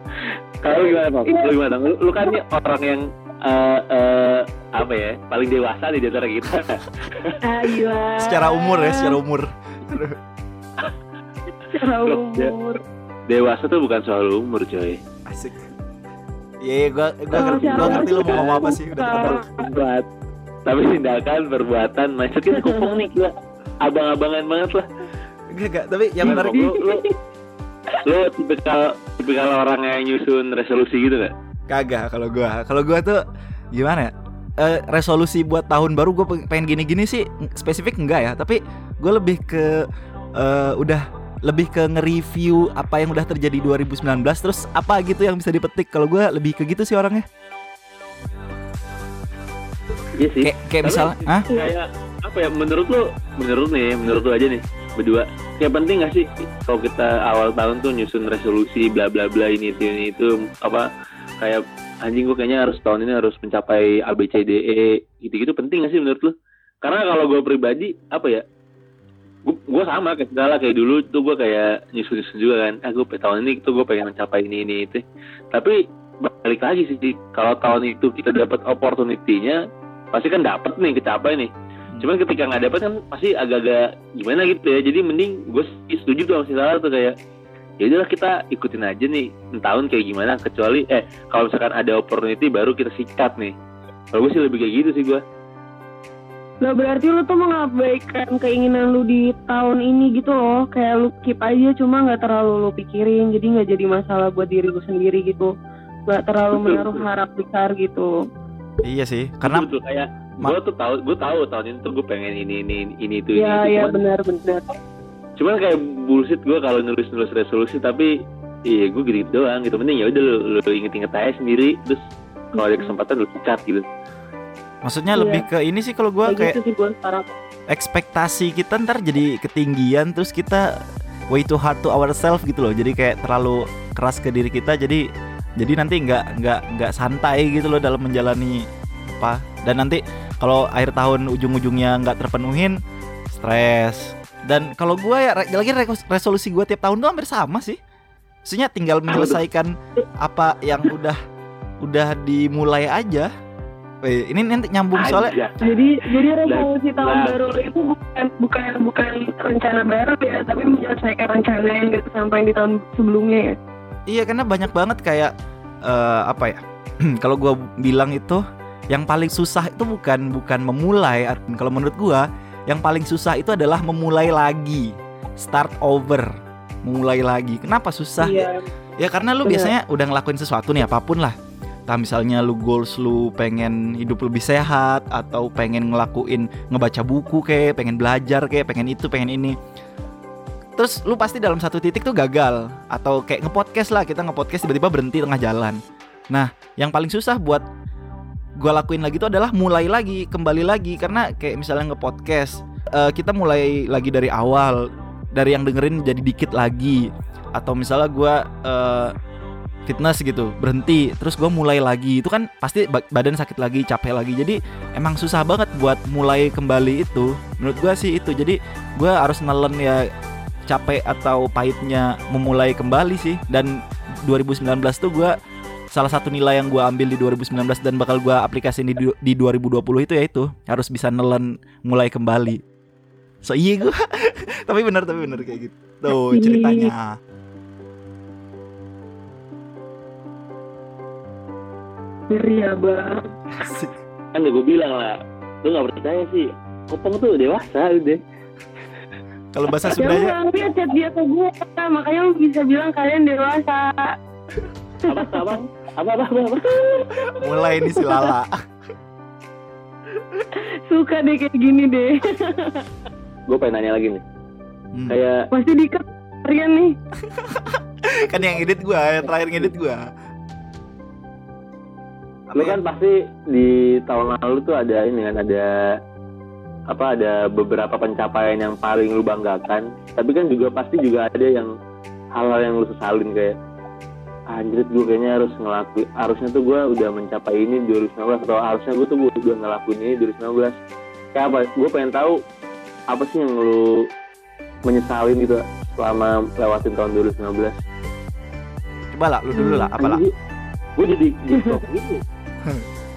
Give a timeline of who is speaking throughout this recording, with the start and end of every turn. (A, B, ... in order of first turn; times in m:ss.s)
0:00.6-0:07.4 A
0:01.2-0:01.5 B
0:07.4-0:09.2 B
0:08.2-0:10.2 C
0:11.7-0:12.8 B
0:12.0-0:12.5 A
0:13.3-0:15.0 A
0:15.2-0:15.7 C
0:16.6-0:19.4 C
0:17.3-0:19.5 B
0:17.6-0:20.1 A
0:20.6-0:24.8 A
0:22.6-0:22.9 B
0:25.5-0:26.5 C
0:26.2-0:27.0 A
0:26.2-0:27.1 B
0:28.0-0:31.3 A
0:31.7-0:33.2 C
0:33.7-0:39.8 C
0:40.4-0:47.2 C
0:50.2-1:00.9 A
0:50.4-0:51.4 C
1:01.4-1:08.4 A
1:09.4-1:19.6 A
1:20.1-1:27.1 A
1:27.8-1:33.5 A
1:34.1-1:35.2 A
1:36.6-1:45.5 B
1:46.1-1:48.1 B
1:46.5-1:47.0 A
1:48.8-1:49.7 C
1:49.4-1:54.0 A
1:53.4-1:54.6 B
1:55.4-1:58.1 A
1:58.7-2:02.0 A
2:02.6-2:02.9 B
2:02.6-2:03.8 A
2:04.8-2:06.5 C
2:05.2-2:05.4 B
2:06.3-2:07.3 B
2:07.7-2:10.7 C
2:11.3-2:15.0 C
2:15.6-2:22.8 C
2:23.3-2:27.8 C
2:28.4-2:31.2 C
2:29.1-2:29.4 A
2:31.8-2:33.3 C
2:34.0-2:35.3 C
2:35.0-2:37.4 A
2:35.6-2:43.6 B
2:44.1-2:45.3 C
2:45.8-2:56.3 C
2:56.8-2:58.4 C
2:58.2-2:58.6 B
2:59.0-3:01.3 C
2:59.4-2:59.7 B
3:01.9-3:09.6 C
3:10.8-3:15.8 C
3:16.3-3:17.6 C
3:18.6-3:24.8 C
3:25.3-3:29.1 C
3:29.8-3:40.0 C
3:40.7-3:45.3 C
3:45.9-3:52.6 C
3:53.4-3:57.2 C
3:56.1-3:56.9 B
4:02.3-4:03.2 B
4:03.5-4:03.9 C
4:04.3-4:08.2 A
4:09.5-4:10.4 C
4:09.9-4:13.9 B
4:15.0-4:15.4 B
4:15.1-4:17.3 A
4:17.2-4:18.5 C
4:17.9-4:18.3 B
4:20.9-4:22.8 B
4:23.5-4:24.2 A
4:25.1-4:25.5 A
4:25.5-4:27.0 B
4:27.2-4:30.0 C
4:32.5-4:32.8 C
4:32.5-4:35.7 A
4:36.9-4:41.7 A
4:42.3-4:43.6 A
4:44.5-4:50.7 A
4:51.3-4:52.4 A
4:53.1-4:54.0 A
4:54.8-4:57.7 A
4:59.0-5:00.2 C
4:59.5-4:59.9 B
5:00.0-5:00.3 A
5:01.0-5:02.2 A